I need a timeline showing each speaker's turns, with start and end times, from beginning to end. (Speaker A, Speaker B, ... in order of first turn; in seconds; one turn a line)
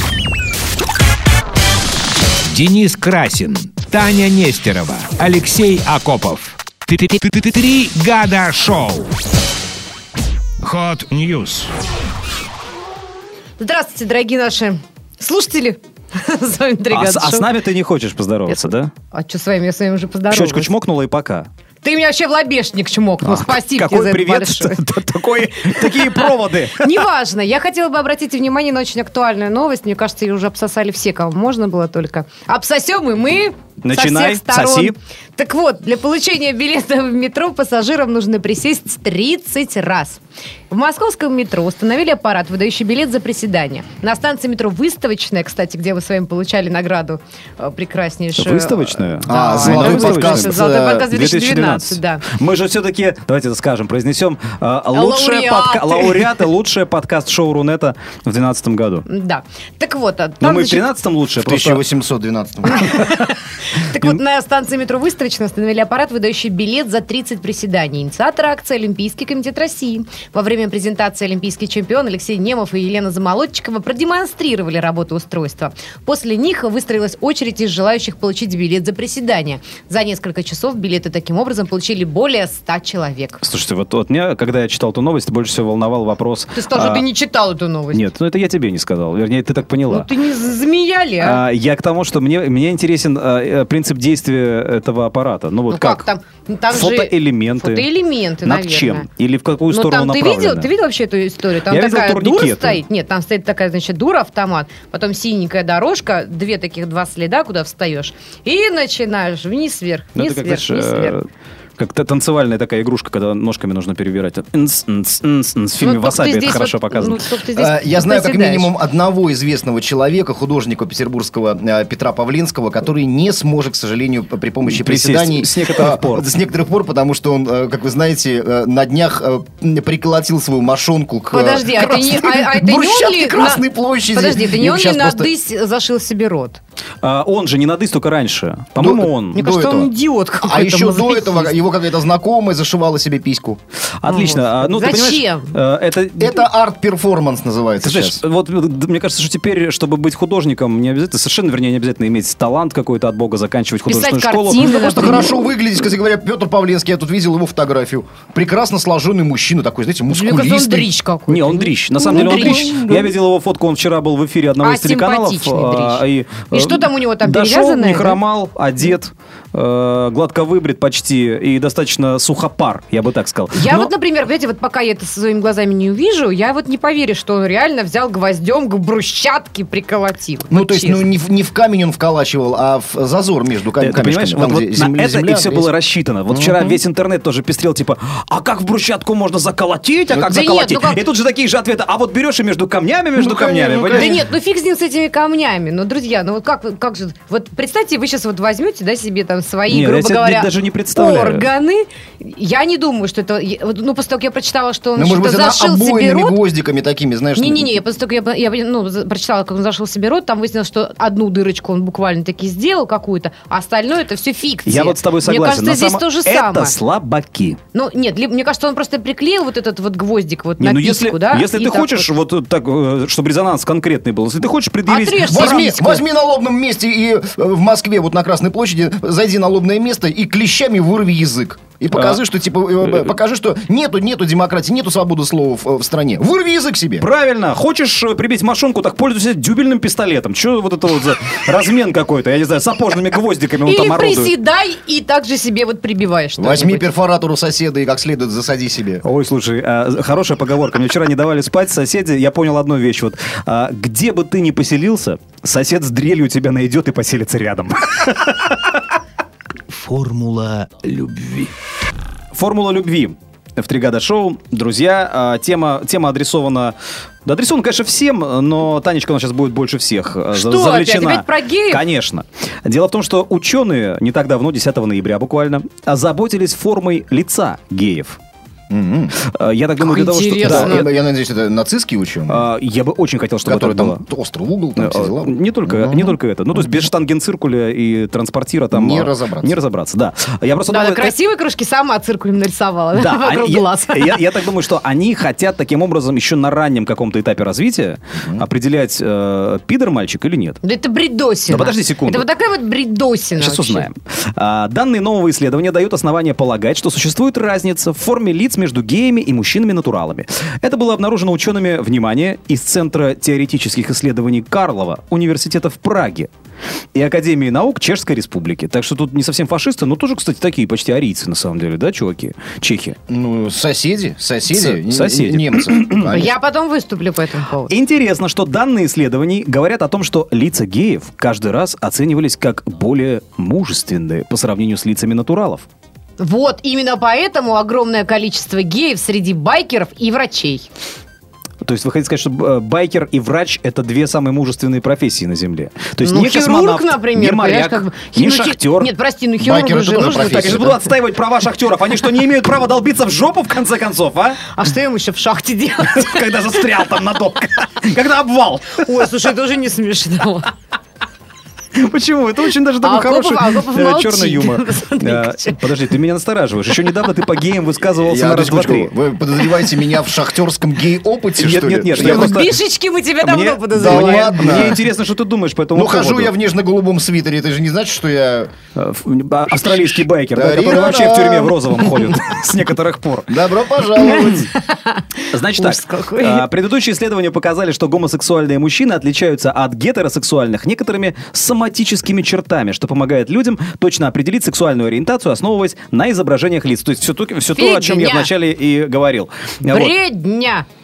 Speaker A: 2.5-9.1
Speaker A: 10.6-11.7
Speaker B: 13.6-17.5
Speaker C: 16.9-18.9
Speaker B: 19.1-20.7
Speaker C: 20.3-21.5
Speaker B: 21.8-24.8
Speaker C: 23.2-27.0
Speaker B: 25.7-52.2
Speaker C: 33.8-34.9
Speaker C: 48.4-59.1
Speaker D: 49.3-51.1
Speaker B: 54.9-56.3
Speaker B: 59.1-60.9
Speaker C: 60.4-61.8
Speaker D: 61.4-63.0
Speaker B: 62.6-83.4
Speaker C: 83.4-87.0
Speaker B: 86.5-88.1
Speaker C: 87.9-90.1
Speaker B: 89.9-91.4
Speaker C: 91.2-96.0
Speaker B: 95.7-99.1
Speaker C: 96.7-97.9
Speaker C: 98.4-100.7
Speaker B: 99.7-111.2
Speaker C: 101.7-102.8
Speaker C: 110.2-111.2
Speaker C: 111.8-117.2
Speaker B: 115.8-118.7
Speaker D: 117.5-135.3
Speaker C: 124.7-126.3
Speaker B: 131.3-136.6
Speaker C: 137.0-139.4
Speaker D: 138.8-139.9
Speaker B: 139.3-141.5
Speaker D: 140.4-143.6
Speaker C: 144.0-146.4
Speaker B: 144.1-145.6
Speaker D: 146.2-148.2
Speaker C: 147.8-155.2
Speaker B: 153.9-155.3
Speaker D: 154.6-160.9
Speaker B: 160.1-162.8
Speaker C: 161.3-173.9
Speaker D: 162.0-163.1
Speaker B: 164.6-168.2
Speaker B: 173.5-181.1
Speaker D: 180.5-185.7
Speaker C: 183.8-194.2
Speaker D: 186.3-186.8
Speaker B: 190.3-191.0
Speaker D: 193.2-194.2
Speaker B: 193.9-206.4
Speaker C: 199.7-201.5
Speaker D: 205.0-207.8
Speaker B: 207.3-216.8
Speaker C: 214.7-217.6
Speaker B: 217.7-222.1
Speaker C: 220.6-225.7
Speaker B: 224.9-226.0
Speaker D: 225.2-237.1
Speaker C: 231.9-232.2
Speaker C: 232.8-233.1
Speaker C: 237.0-244.3
Speaker B: 243.6-246.9
Speaker D: 246.4-249.0
Speaker C: 249.0-258.8
Speaker A: 259.7-261.5
Speaker C: 262.3-266.7
Speaker C: 267.2-278.2
Speaker B: 270.3-271.8
Speaker D: 278.7-279.2
Speaker C: 279.2-280.9
Speaker B: 279.8-280.9
Speaker D: 280.4-282.4
Speaker C: 282.3-284.0
Speaker D: 283.4-286.2
Speaker C: 284.8-291.1
Speaker D: 288.7-289.6
Speaker B: 290.7-294.3
Speaker C: 292.9-300.6
Speaker D: 298.2-298.4
Speaker B: 300.6-303.9
Speaker C: 301.5-302.2
Speaker C: 303.4-316.3
Speaker C: 316.9-323.0
Speaker D: 323.1-326.3
Speaker C: 324.5-326.2
Speaker B: 326.1-327.7
Speaker C: 327.7-335.7
Speaker B: 336.2-340.7
Speaker C: 341.6-348.9
Speaker B: 346.0-350.8
Speaker D: 349.4-350.8
Speaker C: 350.0-354.4
Speaker B: 354.5-356.8
Speaker C: 355.8-359.1
Speaker B: 358.8-360.5
Speaker C: 361.8-368.9
Speaker B: 362.8-365.7
Speaker D: 368.1-372.3
Speaker C: 371.4-372.5
Speaker B: 372.0-374.8
Speaker C: 373.2-376.3
Speaker D: 373.8-374.8
Speaker D: 375.8-378.5
Speaker C: 378.8-383.3
Speaker D: 379.6-382.2
Speaker D: 383.3-384.5
Speaker B: 384.0-386.5
Speaker C: 384.0-384.4
Speaker C: 385.3-399.9
Speaker B: 397.5-398.3
Speaker B: 399.7-400.7